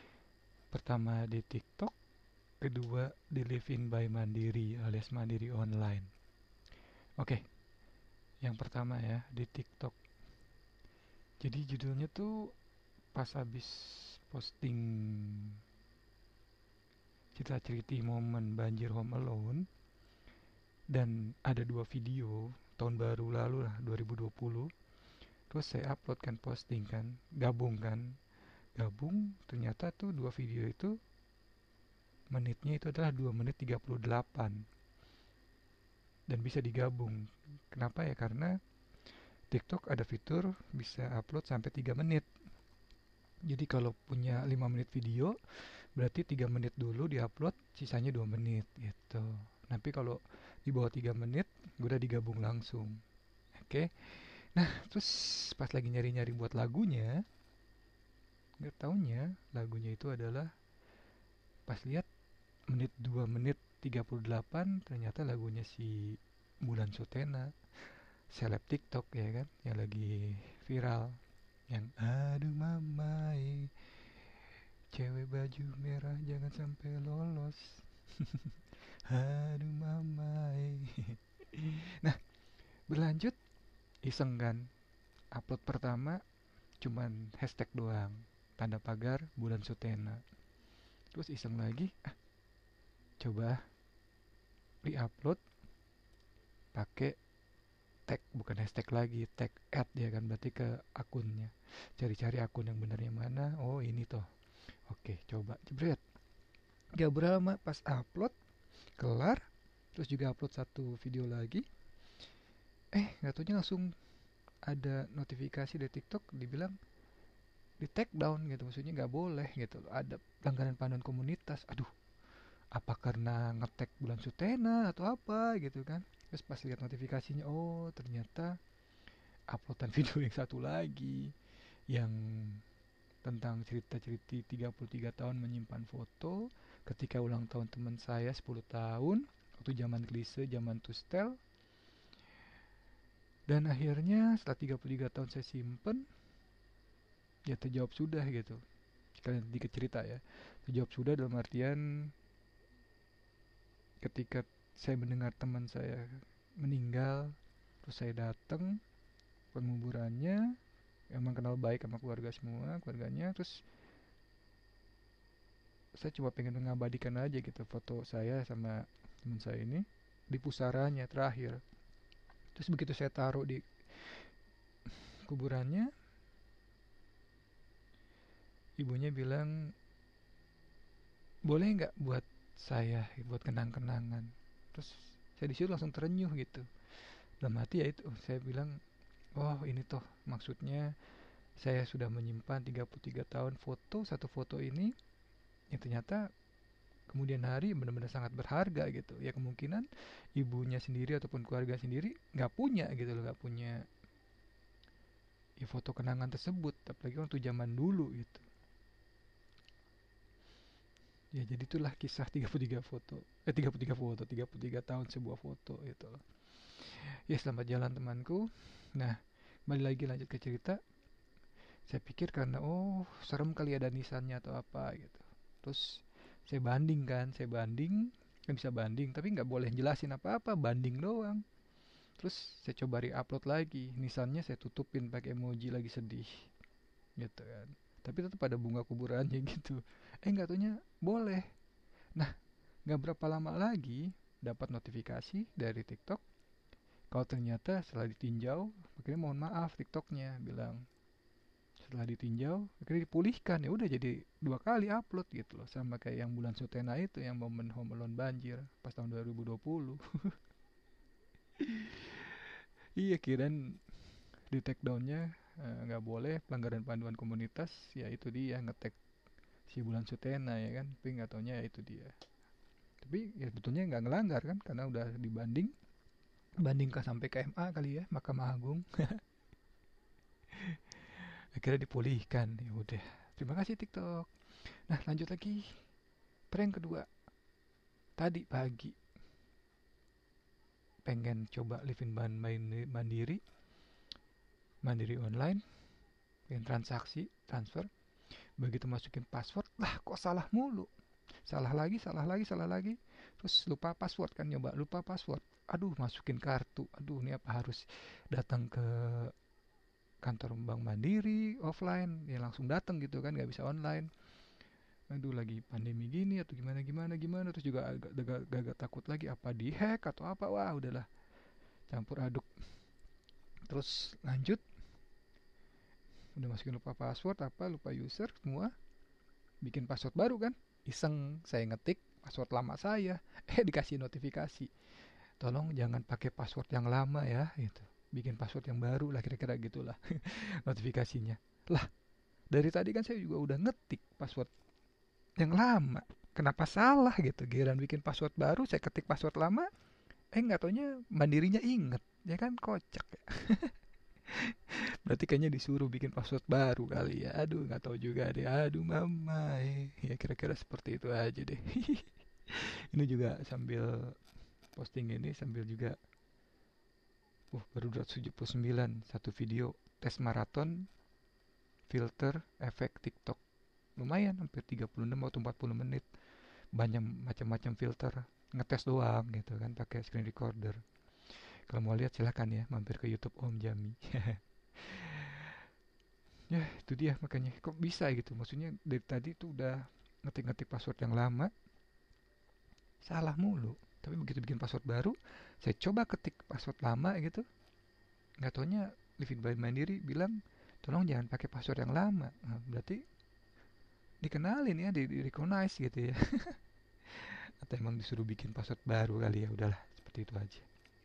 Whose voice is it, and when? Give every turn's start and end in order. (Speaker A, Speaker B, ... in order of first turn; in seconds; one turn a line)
Speaker A: 0.7-1.9
Speaker A: 2.6-6.1
Speaker A: 8.4-9.9
Speaker A: 11.4-12.5
Speaker A: 13.1-15.6
Speaker A: 17.3-19.6
Speaker A: 20.9-24.7
Speaker A: 25.5-28.1
Speaker A: 28.8-31.0
Speaker A: 32.3-34.6
Speaker A: 36.3-38.5
Speaker A: 39.5-42.3
Speaker A: 43.5-53.0
Speaker A: 53.5-57.2
Speaker A: 58.6-60.5
Speaker A: 61.7-62.1
Speaker A: 62.7-67.5
Speaker A: 68.3-73.9
Speaker A: 74.9-82.2
Speaker A: 82.9-83.4
Speaker A: 84.0-84.7
Speaker A: 85.3-86.2
Speaker A: 86.8-90.2
Speaker A: 91.1-92.1
Speaker A: 93.2-93.6
Speaker A: 94.8-95.4
Speaker A: 96.7-97.1
Speaker A: 98.1-104.3
Speaker A: 104.9-106.0
Speaker A: 107.0-108.3
Speaker A: 109.0-111.6
Speaker A: 112.9-113.9
Speaker A: 114.7-116.7
Speaker A: 117.8-121.9
Speaker A: 122.7-128.6
Speaker A: 129.5-131.3
Speaker A: 131.9-132.6
Speaker A: 133.2-141.4
Speaker A: 143.5-146.1
Speaker A: 147.5-148.6
Speaker A: 149.2-152.1
Speaker A: 154.0-158.8
Speaker A: 159.5-160.5
Speaker A: 161.1-163.5
Speaker A: 166.0-171.6
Speaker A: 172.5-174.3
Speaker A: 174.9-175.9
Speaker A: 178.8-179.7
Speaker A: 181.4-186.7
Speaker A: 187.4-188.8
Speaker A: 189.3-190.9
Speaker A: 191.6-194.9
Speaker A: 195.7-196.2
Speaker A: 197.1-203.8
Speaker A: 205.6-208.4
Speaker A: 211.3-220.8
Speaker A: 221.9-231.4
Speaker A: 232.2-236.5
Speaker A: 237.2-241.4
Speaker A: 242.8-246.2
Speaker A: 247.1-250.8
Speaker A: 251.8-260.3
Speaker A: 261.6-262.4
Speaker A: 263.0-263.8
Speaker A: 264.5-268.9
Speaker A: 269.7-272.1
Speaker A: 273.0-275.7
Speaker A: 276.6-279.2
Speaker A: 280.5-285.7
Speaker A: 286.5-287.1
Speaker A: 288.2-288.9
Speaker A: 291.1-293.4
Speaker A: 294.8-295.6
Speaker A: 296.5-297.9
Speaker A: 298.6-300.9
Speaker A: 301.4-309.3
Speaker A: 310.2-314.1
Speaker A: 315.1-321.1
Speaker A: 321.9-322.6
Speaker A: 323.7-324.6
Speaker A: 326.4-328.7
Speaker A: 329.6-334.7
Speaker A: 335.4-341.9
Speaker A: 342.5-344.5
Speaker A: 345.4-349.7
Speaker A: 350.3-353.7
Speaker A: 354.3-364.1
Speaker A: 364.8-366.0
Speaker A: 367.5-370.9
Speaker A: 371.9-373.4
Speaker A: 374.0-376.1
Speaker A: 376.7-385.6
Speaker A: 386.5-391.5
Speaker A: 393.0-397.4
Speaker A: 398.4-403.0
Speaker A: 404.2-406.6
Speaker A: 407.1-410.6